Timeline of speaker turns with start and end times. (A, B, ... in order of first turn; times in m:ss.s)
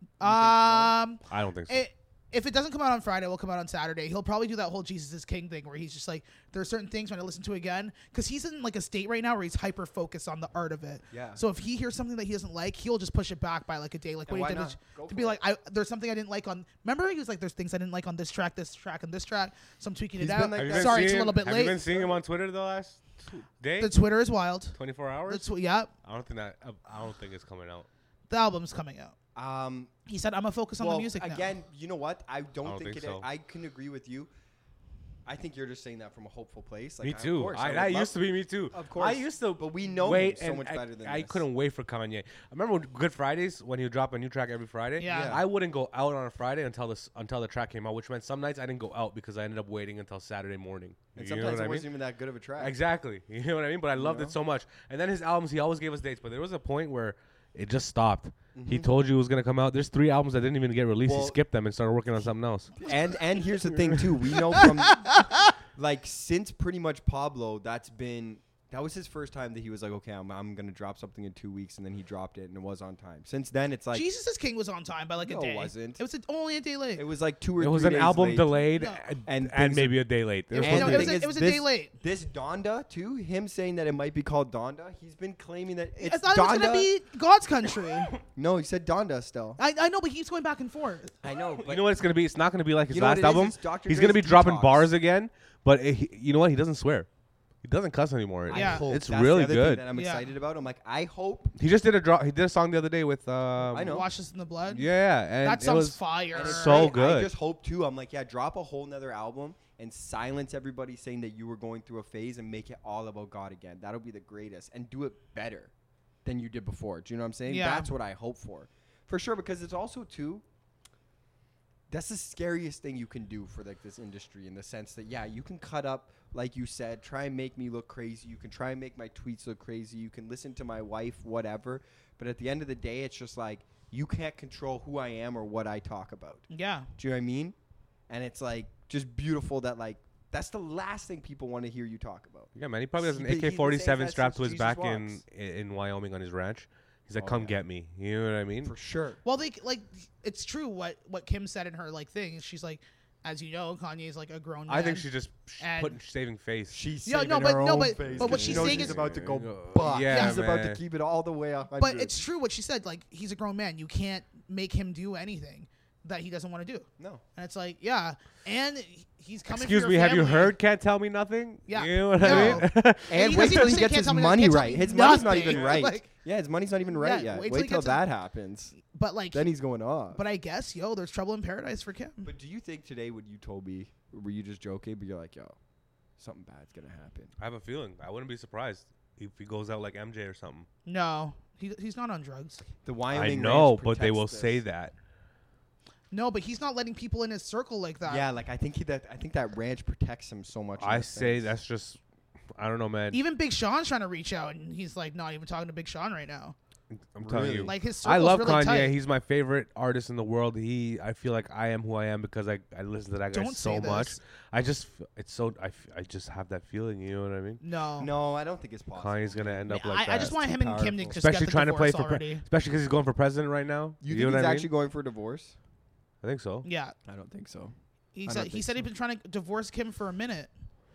0:00.2-0:21.8 A
0:00.2-0:00.9 B
0:01.3-0:01.8 C
0:11.1-0:11.4 B
0:14.3-0:15.4 B
0:20.2-0:22.1 B
0:20.6-0:23.9 C
0:23.8-0:25.9 A
0:24.7-0:25.4 C
0:26.0-0:27.9 C
0:28.3-0:29.1 A
0:29.3-0:29.9 B
0:30.1-0:31.5 A
0:30.8-0:34.3 B
0:32.6-0:33.2 C
0:35.2-0:38.1 B
0:37.0-0:51.9 C
0:38.7-0:41.4 B
0:45.0-0:45.4 A
0:45.0-0:45.4 B
0:51.2-0:52.7 B
0:52.6-1:02.7 C
0:54.0-0:54.3 B
0:58.5-0:58.9 B
1:01.0-1:01.4 B
1:02.8-1:05.1 B
1:04.5-1:05.3 A
1:05.7-1:14.0 B
1:13.9-1:17.0 A
1:15.2-1:16.0 B
1:17.0-1:18.6 B
1:17.6-1:21.2 C
1:18.8-1:19.0 A
1:19.2-1:20.0 B
1:20.5-1:21.9 A
1:20.6-1:26.9 B
1:26.0-1:28.1 A
1:28.3-1:29.6 B
1:29.6-1:31.1 A
1:31.2-1:31.8 B
1:31.6-1:37.1 C
1:32.9-1:34.9 B
1:37.6-1:39.8 C
1:38.5-1:41.5 B
1:38.5-1:38.9 A
1:39.9-1:40.2 A
1:41.6-1:44.0 C
1:43.7-1:44.1 B
1:43.8-1:46.9 A
1:44.7-1:47.3 C
1:46.3-1:55.7 B
1:56.2-2:00.4 B
1:57.5-1:57.9 A
2:01.9-2:17.5 B
2:16.5-2:16.9 A
2:18.1-2:25.2 B
2:22.5-2:28.7 C
2:27.2-2:27.6 B
2:28.6-2:29.2 B
2:29.2-2:35.1 A
2:34.7-2:36.8 C
2:35.6-2:36.0 A
2:36.7-2:42.2 B
2:37.0-2:39.0 A
2:38.1-2:40.8 C
2:40.1-2:40.4 A
2:41.8-2:50.5 A
2:49.5-2:53.8 C
2:51.7-2:56.1 A
2:52.2-2:58.8 B
2:55.1-2:55.8 C
2:56.9-2:58.0 A
2:58.8-2:59.5 A
2:59.3-3:00.2 B
3:00.1-3:02.3 A
3:02.2-3:05.6 B
3:06.2-3:07.3 B
3:07.4-3:10.7 C
3:10.8-3:12.6 A
3:12.8-3:14.6 B
3:13.1-3:14.9 C
3:16.1-3:18.2 A
3:18.0-3:21.5 B
3:20.8-3:22.0 C
3:22.5-3:23.2 C
3:23.1-3:26.5 A
3:26.9-3:37.6 C
3:27.2-3:27.7 B
3:27.6-3:28.9 A
3:33.3-3:34.2 A
3:37.6-3:38.1 A
3:38.0-3:41.2 B
3:38.9-3:40.3 C
3:39.7-3:42.4 A
3:41.1-3:44.7 C
3:44.0-3:45.5 B
3:46.2-3:46.6 C
3:46.6-3:46.9 A
3:47.0-3:47.7 B
3:48.1-3:50.5 A
3:48.2-3:48.8 B